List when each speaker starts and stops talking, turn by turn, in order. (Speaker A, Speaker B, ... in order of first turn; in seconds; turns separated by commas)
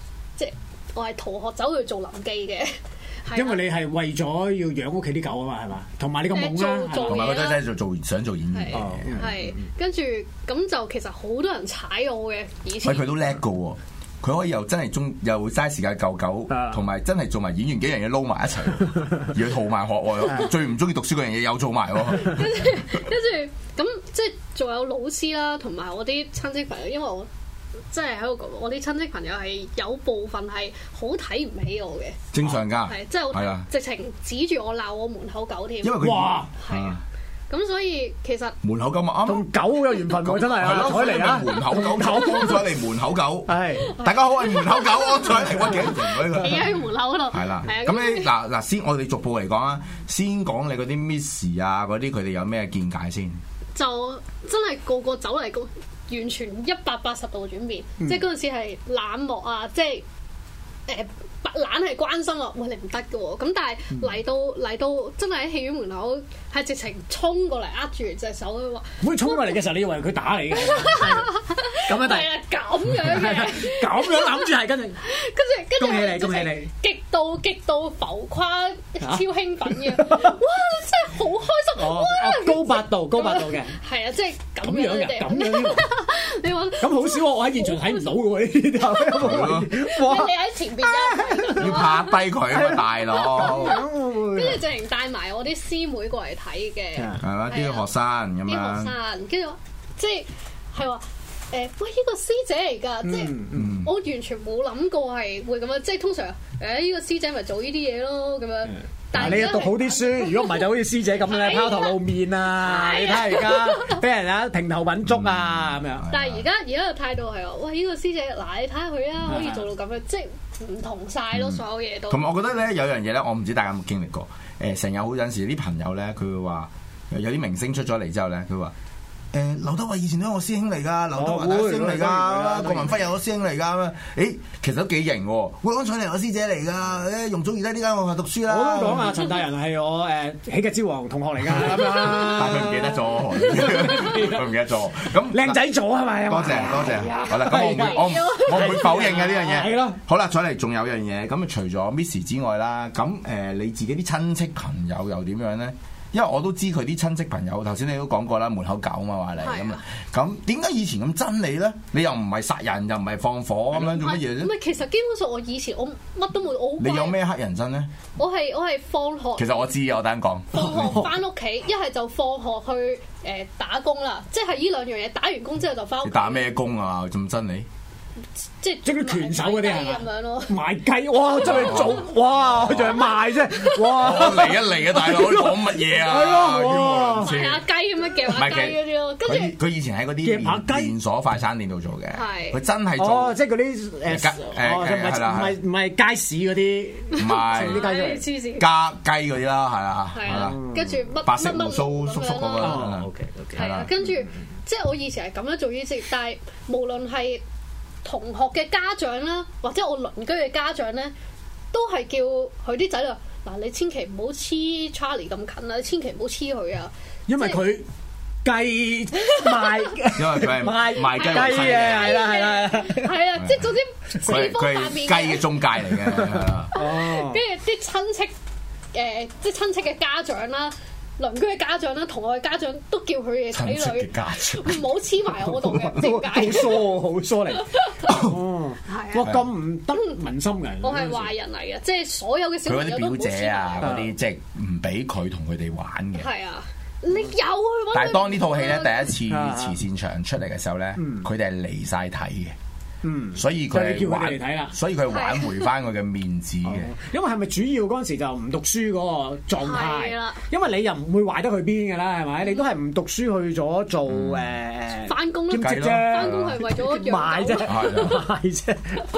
Speaker A: 0.4-3.6, Speaker B: 3.3-7.2, Speaker A: 6.3-7.6, Speaker C: 7.0-9.1, Speaker A: 8.5-13.1, Speaker B: 8.7-9.6, Speaker C: 12.8-22.7, Speaker B: 16.5-16.8, Speaker A: 22.2-27.3, Speaker A: 27.9-36.0, Speaker C: 32.3-33.7, Speaker C: 35.8-37.0, Speaker B: 36.0-36.5, Speaker A: 36.6-37.0, Speaker A: 37.5-38.5, Speaker C: 38.6-53.4, Speaker B: 39.2-42.6, Speaker B: 43.5-43.9, Speaker A: 43.9-48.3, Speaker A: 53.7-60.0, Speaker A: 60.9-69.5, Speaker B: 69.0-72.3, Speaker A: 70.6-74.5, Speaker B: 73.0-75.0, Speaker A: 75.0-88.1, Speaker B: 75.8-76.7, Speaker B: 79.0-80.4, Speaker B: 81.8-83.8, Speaker B: 84.6-85.9, Speaker B: 86.8-90.3, Speaker A: 88.8-92.1, Speaker C: 89.2-89.7, Speaker B: 90.8-91.7, Speaker C: 91.5-93.8, Speaker B: 92.5-94.6, Speaker A: 93.3-97.8, Speaker B: 97.0-97.2, Speaker C: 97.2-98.9, Speaker A: 98.5-110.7, Speaker B: 103.0-103.8, Speaker C: 103.5-103.9, Speaker C: 109.1-109.6, Speaker B: 109.1-116.0, Speaker A: 111.2-112.0, Speaker A: 112.6-114.0, Speaker C: 115.0-116.4, Speaker A: 116.1-122.3, Speaker B: 119.3-119.6, Speaker C: 121.3-128.7, Speaker C: 129.3-139.1, Speaker B: 131.2-132.9, Speaker B: 138.5-144.4, Speaker C: 141.6-145.6, Speaker B: 145.3-150.0, Speaker C: 146.3-164.5, Speaker A: 147.7-149.0, Speaker A: 159.4-159.8, Speaker A: 163.8-167.2, Speaker C: 166.8-167.9, Speaker A: 168.2-169.7, Speaker C: 169.4-171.1, Speaker A: 170.5-176.5, Speaker B: 170.6-171.1, Speaker C: 176.0-177.7, Speaker A: 178.6-180.6, Speaker B: 178.8-187.3, Speaker C: 181.4-183.1, Speaker A: 181.4-181.9, Speaker C: 183.8-187.6, Speaker A: 187.2-189.5, Speaker C: 188.3-193.4, Speaker B: 190.2-190.9, Speaker A: 192.1-192.6, Speaker B: 193.0-198.2, Speaker C: 194.1-195.6, Speaker A: 197.1-198.7, Speaker C: 197.2-197.9, Speaker C: 198.6-200.6, Speaker A: 200.1-202.9, Speaker B: 200.3-200.9, Speaker C: 201.2-203.9, Speaker B: 202.6-203.5, Speaker A: 203.5-207.4, Speaker A: 208.0-211.1, Speaker A: 211.7-217.6, Speaker B: 217.3-217.8, Speaker B: 218.4-223.1, Speaker C: 220.2-222.2, Speaker A: 221.0-225.6, Speaker C: 223.4-223.7, Speaker C: 224.2-226.7, Speaker B: 226.1-227.4, Speaker A: 226.7-228.3, Speaker A: 228.9-236.9, Speaker C: 233.5-234.9, Speaker C: 235.6-235.9, Speaker B: 235.9-241.3, Speaker A: 237.6-238.1, Speaker C: 238.1-238.4, Speaker A: 238.9-239.3, Speaker A: 240.8-243.9, Speaker C: 242.6-246.3, Speaker B: 243.8-244.1, Speaker A: 246.2-249.1, Speaker C: 247.9-252.6, Speaker B: 249.3-249.8, Speaker B: 251.0-251.3, Speaker B: 253.0-254.7, Speaker C: 253.3-256.9, Speaker A: 255.1-255.7, Speaker B: 256.6-269.0, Speaker A: 259.6-260.4, Speaker C: 264.1-264.6, Speaker A: 265.0-268.2, Speaker C: 265.6-266.6, Speaker C: 267.6-268.2